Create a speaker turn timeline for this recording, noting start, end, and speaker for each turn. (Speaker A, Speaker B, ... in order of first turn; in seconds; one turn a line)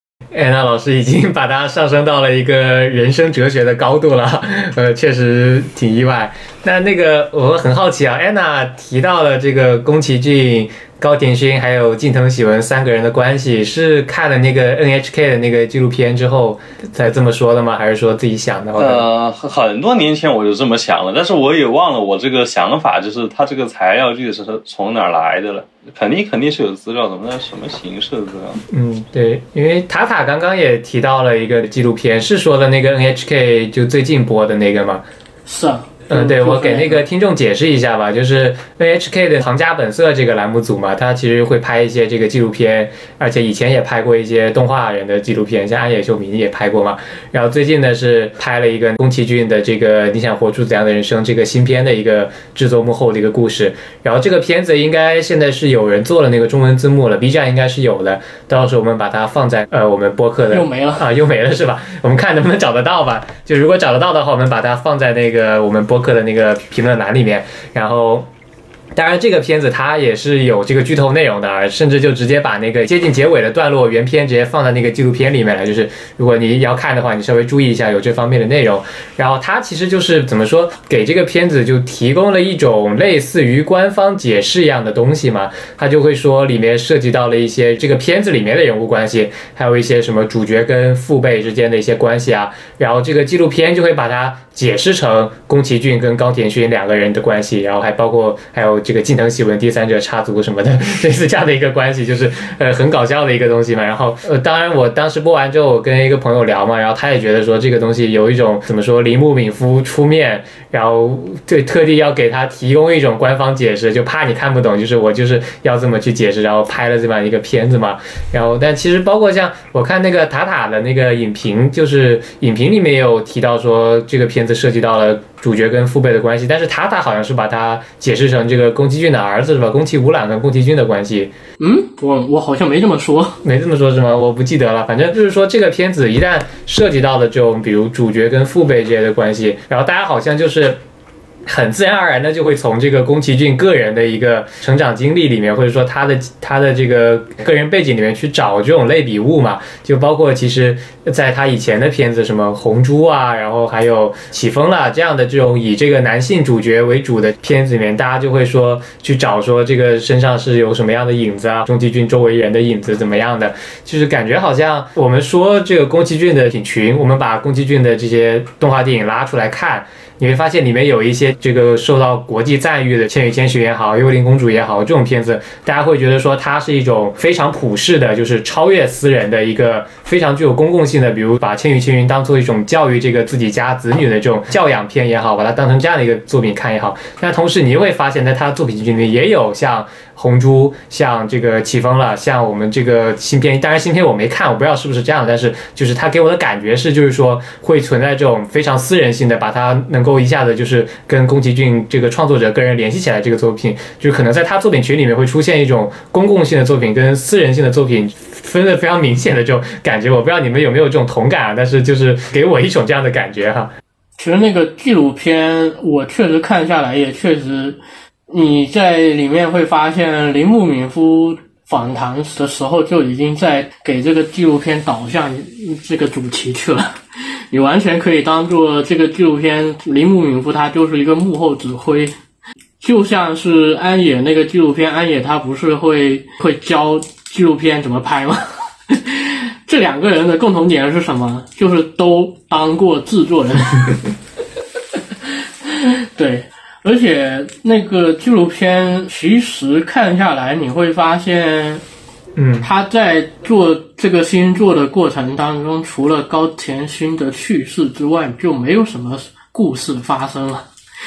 Speaker A: 0.3-19.0
Speaker B: 18.8-28.6
Speaker A: 28.7-35.0
Speaker C: 35.5-37.0
Speaker A: 36.1-68.3
Speaker C: 60.5-61.0
Speaker A: 68.9-131.3
Speaker C: 131.6-133.4
Speaker A: 133.4-140.8
Speaker A: 141.4-213.7
Speaker C: 214.2-217.8
Speaker C: 218.3-226.9
Speaker C: 227.5-232.1
Speaker C: 232.8-244.1
Speaker C: 245.2-251.8
Speaker A: 252.3-252.7
Speaker C: 252.6-260.7